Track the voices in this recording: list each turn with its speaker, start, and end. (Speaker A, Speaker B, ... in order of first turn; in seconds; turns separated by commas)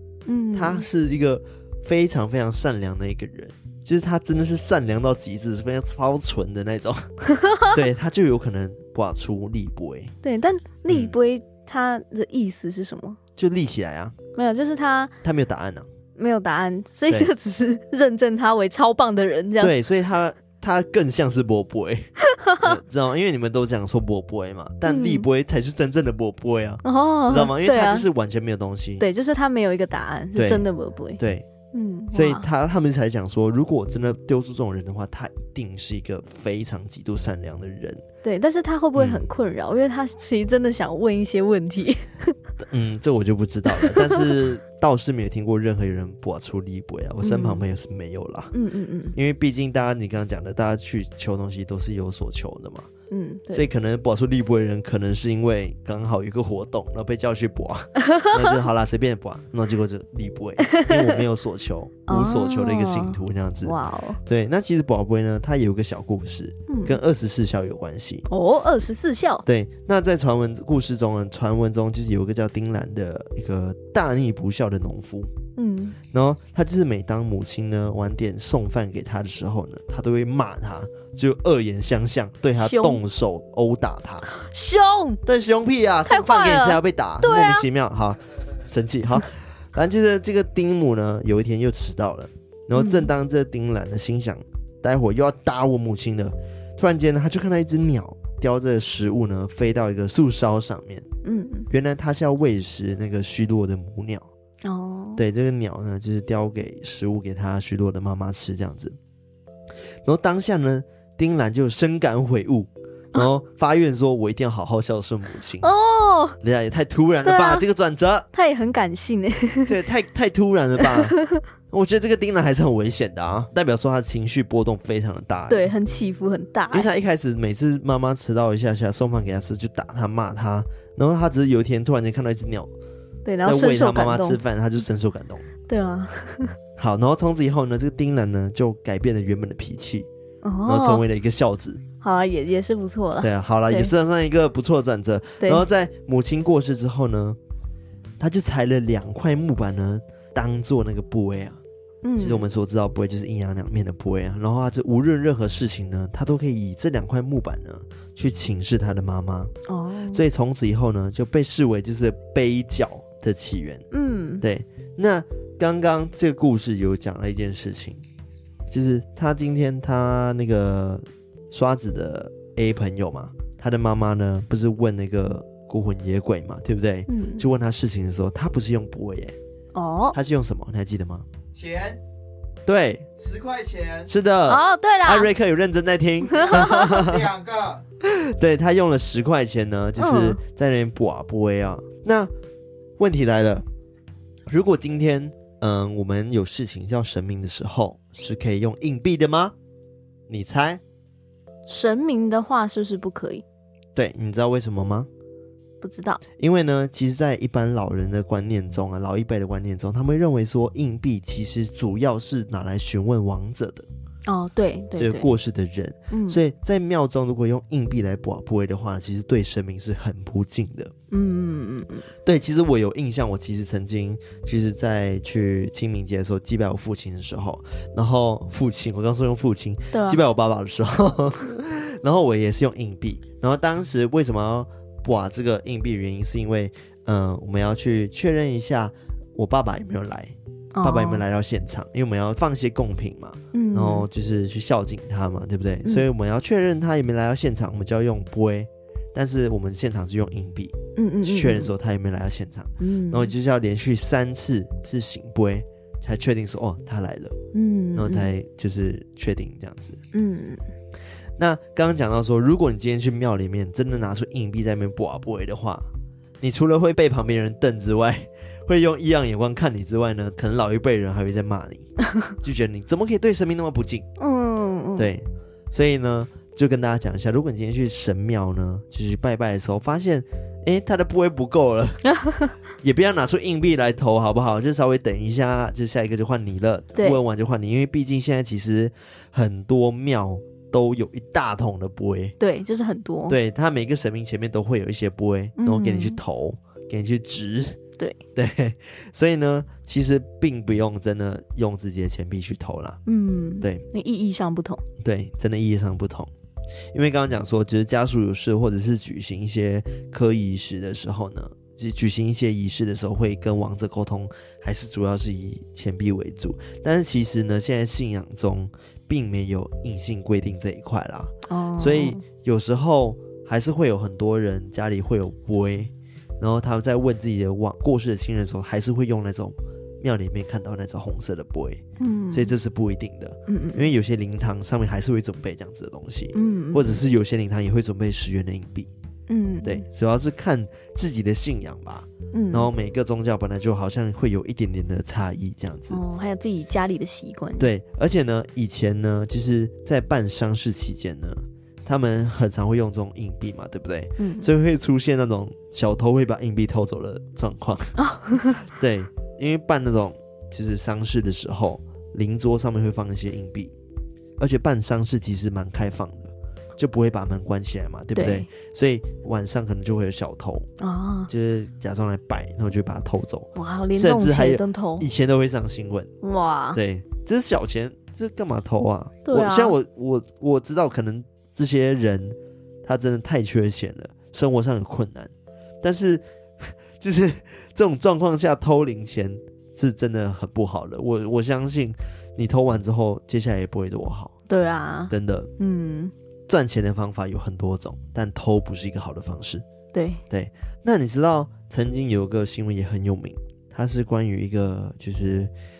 Speaker A: 0.2-0.8, Speaker B: 0.5-7.1, Speaker A: 7.3-7.7, Speaker B: 7.7-10.1, Speaker A: 10.2-13.2, Speaker B: 10.9-11.1, Speaker B: 13.4-14.2, Speaker A: 14.3-15.1, Speaker B: 15.2-15.9, Speaker A: 16.1-19.7, Speaker B: 19.6-29.1, Speaker A: 22.3-22.7, Speaker A: 24.9-25.3, Speaker A: 26.8-28.1, Speaker A: 29.0-31.2, Speaker B: 30.3-30.6, Speaker B: 31.2-31.5, Speaker A: 31.7-32.5, Speaker B: 32.1-38.0, Speaker A: 38.2-42.3, Speaker B: 39.0-39.2, Speaker B: 42.6-48.5, Speaker A: 43.7-44.2, Speaker A: 47.2-47.6, Speaker A: 48.5-49.2, Speaker B: 49.1-52.9, Speaker A: 53.1-53.6, Speaker B: 53.5-68.2, Speaker A: 58.0-58.5, Speaker A: 60.6-61.2, Speaker A: 62.1-64.2, Speaker A: 66.7-67.0, Speaker A: 68.3-69.4, Speaker B: 69.5-75.3, Speaker A: 75.6-76.0, Speaker B: 76.1-84.3, Speaker A: 82.6-83.0, Speaker A: 84.3-85.2, Speaker B: 85.2-101.0, Speaker A: 86.0-87.7, Speaker A: 92.7-93.1, Speaker A: 101.2-101.7, Speaker B: 101.7-104.3, Speaker A: 104.6-105.2, Speaker B: 105.2-109.0, Speaker B: 110.0-115.7, Speaker A: 115.6-116.4, Speaker B: 116.4-118.3, Speaker A: 117.2-117.6, Speaker A: 118.3-119.7, Speaker B: 119.7-121.2, Speaker A: 120.8-121.4, Speaker B: 121.7-125.7, Speaker A: 125.5-126.9, Speaker B: 126.7-132.7, Speaker A: 133.2-134.4, Speaker B: 133.4-135.5, Speaker A: 135.7-136.6, Speaker B: 136.8-140.1, Speaker A: 140.4-141.0, Speaker B: 140.7-141.8, Speaker A: 142.0-143.9, Speaker B: 143.2-147.4, Speaker B: 148.2-151.6, Speaker A: 152.0-152.4, Speaker B: 152.2-159.5, Speaker A: 159.7-160.2, Speaker B: 160.1-163.8, Speaker A: 163.9-164.4, Speaker B: 164.4-168.0, Speaker B: 168.7-179.3, Speaker A: 177.1-177.4, Speaker A: 179.7-180.2, Speaker B: 180.1-181.2, Speaker C: 181.5-182.0, Speaker B: 182.7-183.1, Speaker C: 183.2-184.1, Speaker B: 184.1-187.3, Speaker A: 184.5-185.3, Speaker A: 186.3-186.9, Speaker C: 186.5-187.8, Speaker B: 188.0-192.3, Speaker A: 190.0-190.4, Speaker B: 193.0-193.6, Speaker B: 194.5-199.5, Speaker B: 200.3-200.8, Speaker A: 201.7-203.4, Speaker B: 203.9-205.1, Speaker A: 205.8-206.2, Speaker B: 206.4-213.9, Speaker A: 214.3-215.3, Speaker B: 214.9-220.9, Speaker A: 216.1-216.4, Speaker A: 221.1-222.1, Speaker B: 222.2-257.4, Speaker A: 229.9-230.2, Speaker A: 240.7-241.2, Speaker A: 243.5-244.1, Speaker A: 250.9-251.7, Speaker A: 252.8-253.3, Speaker A: 257.5-258.3, Speaker B: 257.9-260.0, Speaker A: 260.1-260.6, Speaker B: 261.4-265.9, Speaker B: 266.4-271.9, Speaker B: 272.4-274.1, Speaker A: 274.2-275.1, Speaker B: 275.0-282.0, Speaker A: 282.1-282.5, Speaker B: 282.8-292.4, Speaker A: 286.9-287.2, Speaker A: 292.4-293.4, Speaker B: 293.3-297.8, Speaker A: 295.6-296.2, Speaker B: 298.4-303.0, Speaker A: 303.1-304.8, Speaker B: 305.0-306.3, Speaker B: 306.9-338.9, Speaker A: 321.5-322.2, Speaker A: 332.0-332.5, Speaker A: 333.5-333.9, Speaker A: 336.3-337.0, Speaker A: 339.3-339.8, Speaker B: 339.6-346.0, Speaker A: 342.3-342.7, Speaker A: 345.9-347.7, Speaker B: 347.6-363.7, Speaker A: 354.2-354.5, Speaker A: 358.0-358.6, Speaker B: 364.4-370.7, Speaker A: 368.1-368.5, Speaker A: 370.8-371.3, Speaker B: 371.3-376.1, Speaker A: 373.5-375.1, Speaker A: 376.2-376.8, Speaker B: 376.7-385.3, Speaker A: 379.2-379.8, Speaker B: 385.8-394.3, Speaker A: 394.5-396.1, Speaker B: 395.1-395.5, Speaker B: 396.5-399.6, Speaker A: 399.9-400.2, Speaker B: 400.3-405.5